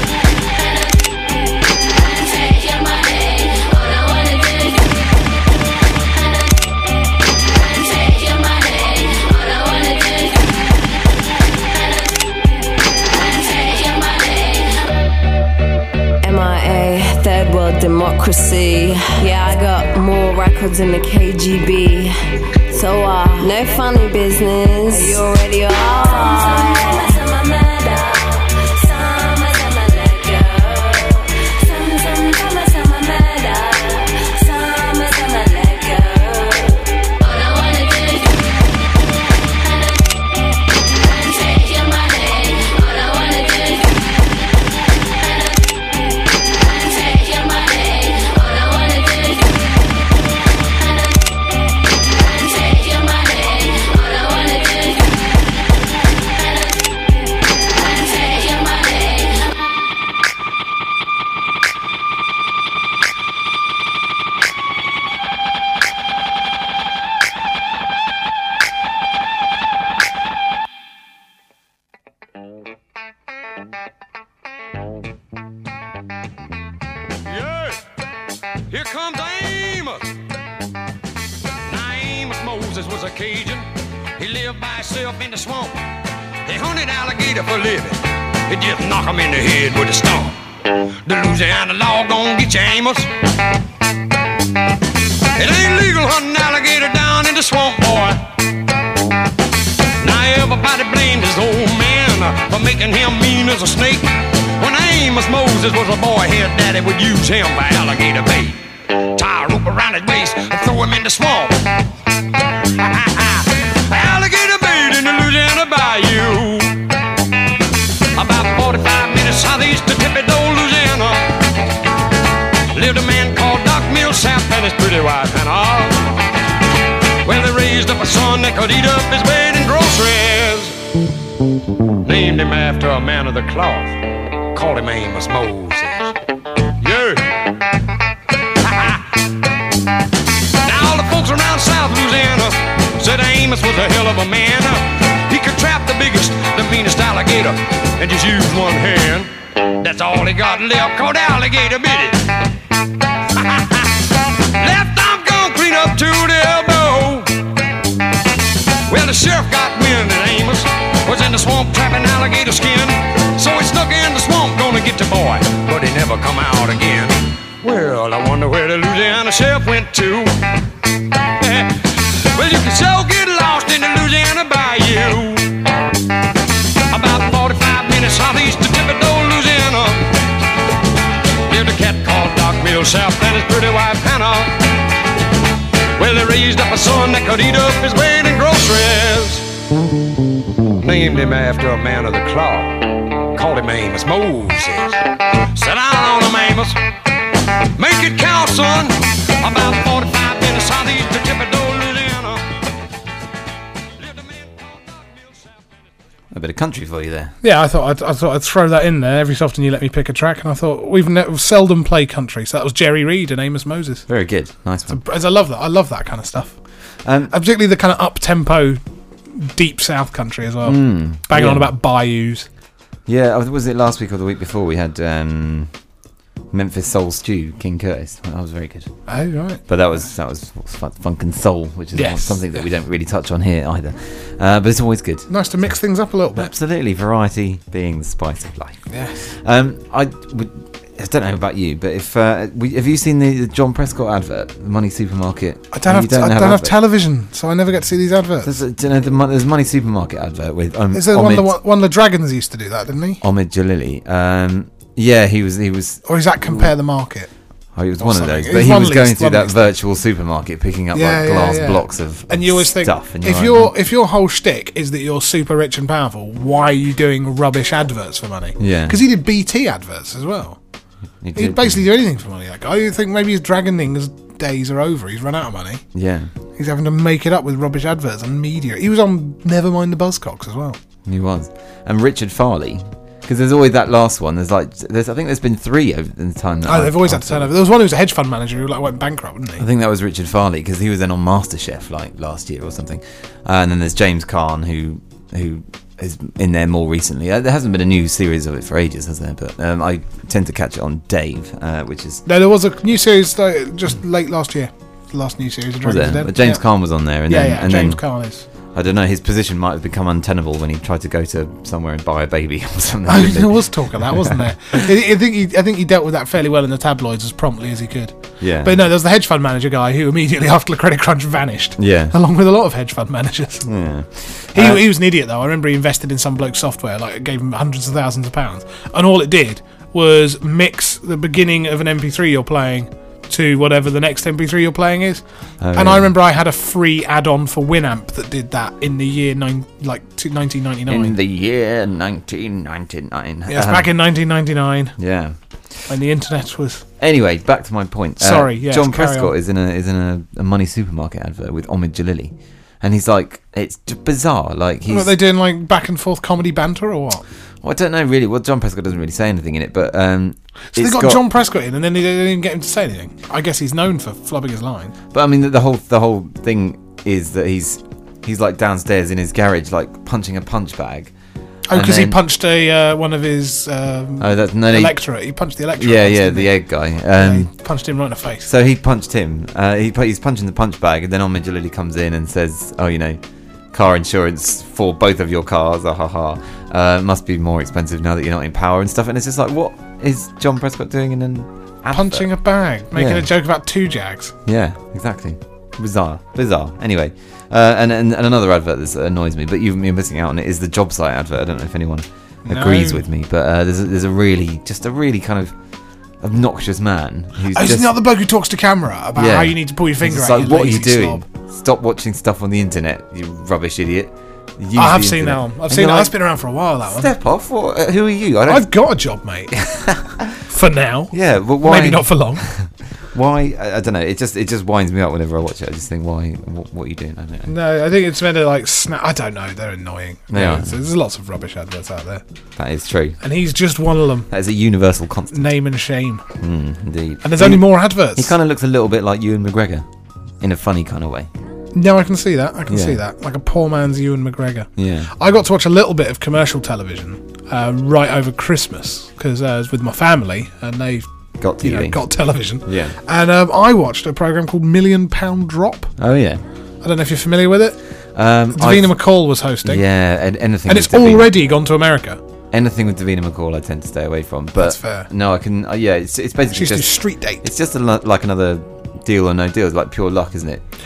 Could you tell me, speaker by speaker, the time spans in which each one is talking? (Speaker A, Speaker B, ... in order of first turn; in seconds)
Speaker A: 16.2-22.1, 22.7-38.2, 42.5-43.0
Speaker B: 77.2-77.8, 78.7-80.0, 81.7-85.8, 86.4-93.1, 95.3-98.2, 100.0-111.7, 112.7-116.8, 118.1-121.3, 122.7-126.1, 127.2-130.8, 132.0-136.2, 136.8-137.4, 138.6-139.2, 140.6-152.3, 153.3-157.4, 158.9-170.4, 171.4-175.6, 176.9-180.1, 181.5-184.7, 185.9-189.5, 190.8-196.8, 197.8-202.4, 203.9-205.7
Speaker C: 206.3-207.3, 214.1-215.0, 217.0-217.3, 220.6-221.7, 223.1-225.7, 226.5-228.9, 229.7-235.3, 236.3-246.8, 248.4-251.5, 253.2-256.7, 257.7-263.7, 268.6-269.0, 271.2-271.8, 275.9-276.3, 281.1-287.5, 289.6-302.2, 305.8-308.0, 308.7-314.8, 318.4-318.8, 321.8-322.1, 323.6-324.8, 335.6-336.1, 340.9-343.9, 345.0-345.9, 347.0-355.1, 357.6-361.2, 365.1-371.1, 371.7-372.2, 374.2-375.0, 375.8-377.5, 378.4-383.2, 383.7-392.3, 392.9-393.3, 394.4-405.5, 406.2-407.9, 409.1-416.2, 416.8-418.7, 419.5-420.3, 421.1-427.5, 430.3-430.7, 432.6-433.2, 434.3-435.5, 436.4-439.9, 440.4-441.3, 442.7-443.0, 444.8-445.1, 451.4-452.0, 452.6-453.0, 456.0-456.4, 458.1-458.9, 459.6-461.3, 462.5-470.6
Speaker D: 207.4-214.0, 214.9-216.5, 217.3-218.8, 219.3-222.5, 229.1-229.6, 231.9-232.6, 235.3-236.5, 238.9-239.3, 245.7-248.6, 250.9-253.2, 256.0-257.3, 258.0-259.6, 260.9-270.6, 271.3-275.8, 276.6-280.8, 286.6-289.6, 302.2-306.6, 307.2-308.4, 313.1-323.7, 324.5-335.2, 335.7-341.1, 343.5-344.9, 345.9-346.8, 348.2-349.3, 354.9-357.2, 360.7-364.9, 371.7-376.5, 377.1-378.5, 391.9-394.3, 402.4-403.0, 407.5-411.2, 414.7-417.1, 418.5-419.6, 420.4-422.4, 427.5-432.2, 433.2-434.3, 435.3-436.2, 437.2-438.3, 441.7-451.1, 451.6-455.9, 456.8-457.8, 458.5-459.8, 460.7-462.2, 464.6-465.1, 466.5-467.4